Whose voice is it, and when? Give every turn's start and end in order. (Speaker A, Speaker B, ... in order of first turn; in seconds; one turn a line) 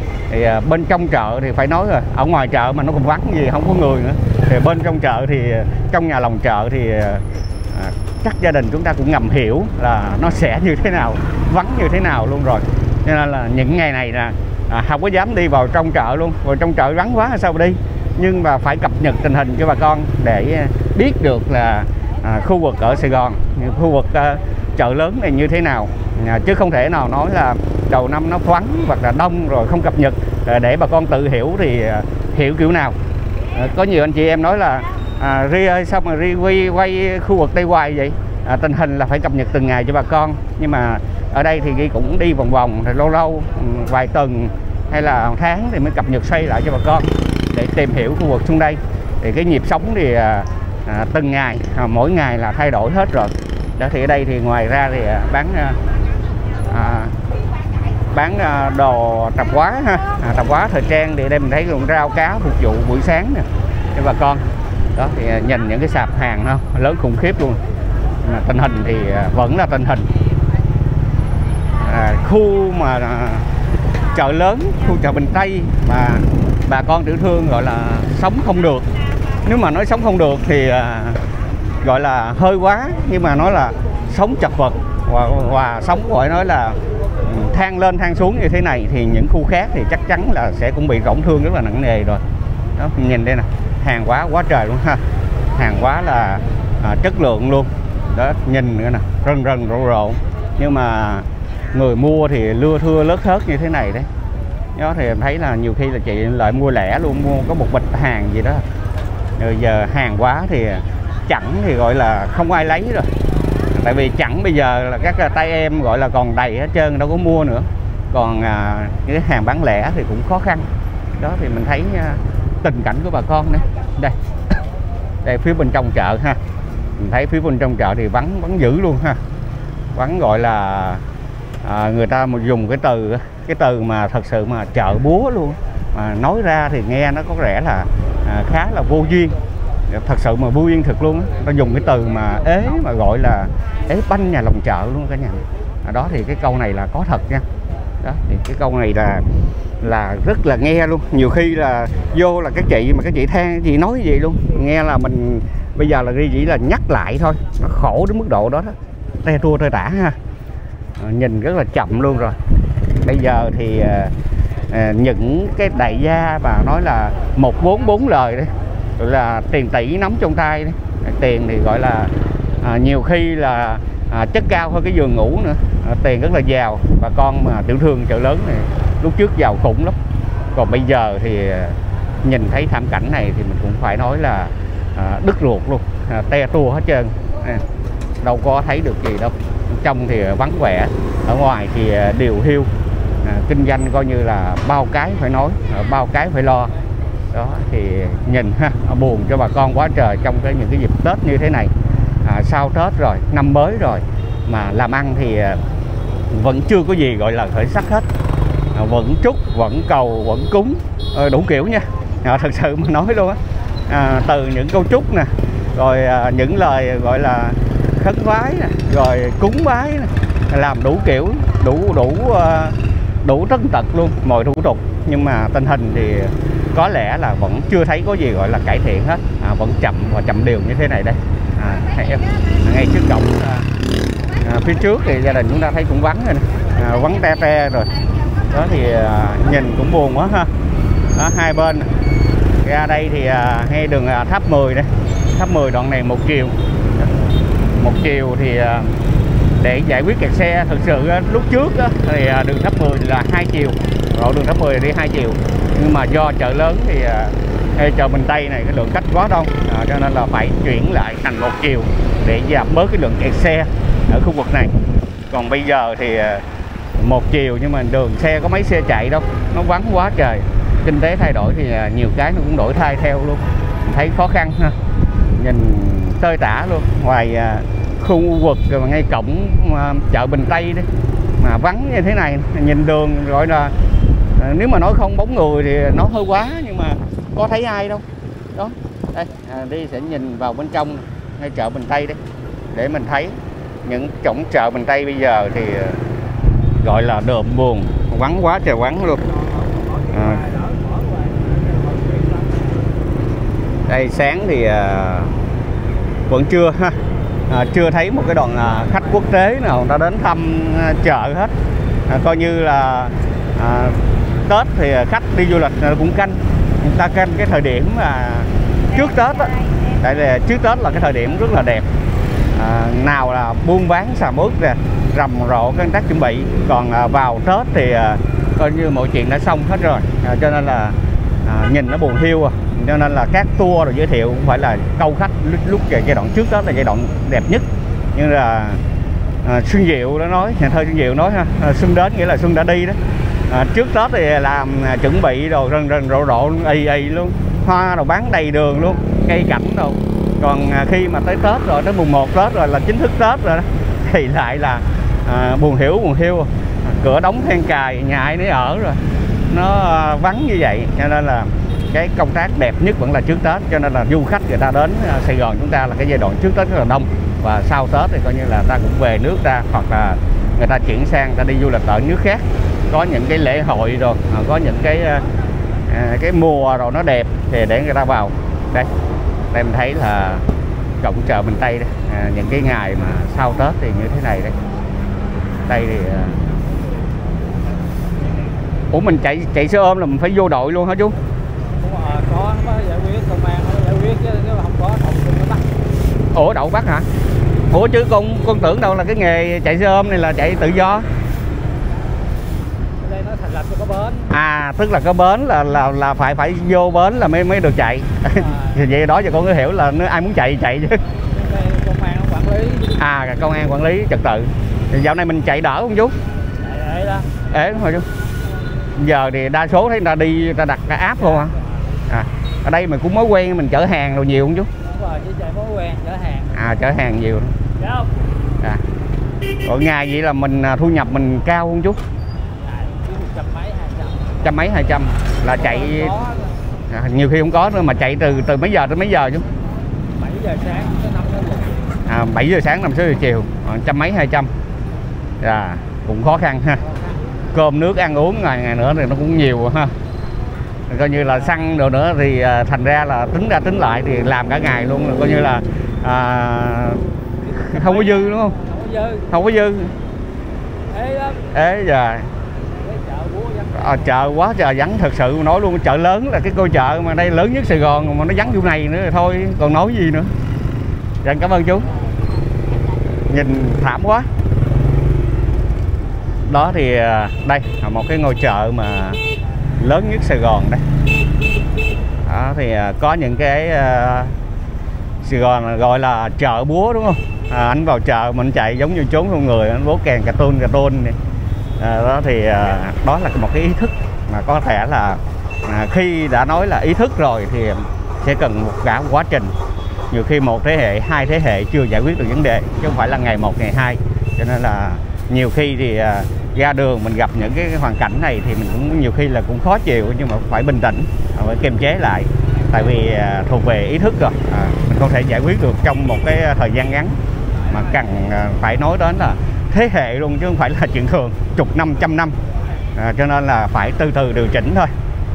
Speaker A: 0.3-33.0
Speaker A: 33.5-55.8
Speaker A: 56.6-57.1
Speaker A: 58.1-67.6
Speaker A: 68.2-70.1
Speaker A: 71.8-73.5
Speaker A: 74.1-78.9
Speaker A: 79.4-81.2
Speaker A: 81.8-92.2
Speaker A: 92.8-95.0
Speaker A: 95.5-104.1
Speaker A: 104.8-108.6
Speaker A: 109.4-113.1
Speaker A: 113.7-120.7
Speaker A: 121.2-124.2
Speaker A: 125.2-126.4
Speaker A: 127.0-129.2
Speaker A: 129.9-131.0
Speaker A: 131.6-139.4
Speaker A: 139.9-147.4
Speaker A: 148.0-149.3
Speaker A: 149.8-160.2
Speaker A: 161.0-162.4
Speaker A: 163.0-164.1
Speaker A: 164.7-180.0
Speaker A: 180.5-187.6
Speaker A: 188.2-192.7
Speaker A: 193.2-196.7
Speaker A: 197.3-201.7
Speaker A: 202.2-205.6
Speaker A: 206.3-208.1
Speaker A: 208.8-233.7
Speaker A: 234.4-240.5
Speaker A: 241.2-241.9
Speaker A: 242.6-246.6
Speaker A: 247.8-248.9
Speaker A: 249.6-264.7
Speaker A: 265.3-266.4
Speaker A: 267.0-274.8
Speaker A: 275.4-280.9
Speaker A: 281.4-283.8
Speaker A: 284.4-292.2
Speaker A: 292.7-296.0
Speaker A: 296.8-299.3
Speaker A: 300.1-300.6
Speaker A: 303.9-305.4
Speaker A: 306.3-311.5
Speaker A: 312.1-321.9
Speaker A: 322.5-338.8
Speaker A: 339.4-343.0
Speaker A: 343.5-375.3
Speaker A: 375.9-378.9
Speaker A: 379.5-380.5
Speaker A: 381.0-384.6
Speaker A: 385.7-386.4
Speaker A: 388.9-391.2
Speaker B: 391.8-395.7
Speaker A: 396.3-397.1
Speaker A: 397.7-401.1
Speaker B: 403.0-404.3
Speaker A: 404.3-411.0
Speaker B: 408.4-408.8
Speaker B: 411.3-412.9
Speaker A: 412.9-416.1
Speaker B: 416.6-417.4
Speaker A: 417.4-418.1
Speaker A: 418.9-421.6
Speaker A: 422.1-424.7
Speaker B: 424.8-426.6
Speaker A: 426.5-427.6
Speaker B: 427.8-428.1
Speaker A: 429.6-432.0
Speaker B: 432.6-434.4
Speaker A: 434.4-436.2
Speaker B: 435.6-436.5
Speaker A: 436.9-439.5
Speaker B: 440.2-441.9
Speaker A: 442.1-444.5
Speaker A: 445.4-446.8
Speaker A: 447.5-449.9
Speaker A: 450.9-458.6
Speaker B: 457.5-459.3
Speaker A: 459.3-459.9
Speaker B: 460.9-461.5
Speaker A: 461.4-462.3
Speaker B: 462.7-463.9
Speaker A: 463.7-470.3
Speaker A: 471.2-471.9
Speaker A: 473.3-474.3
Speaker A: 476.4-479.2
Speaker A: 479.8-480.8
Speaker A: 482.3-484.4
Speaker A: 485.2-491.2
Speaker A: 491.8-499.6
Speaker A: 500.1-517.2
Speaker A: 517.7-522.4
Speaker A: 523.0-524.9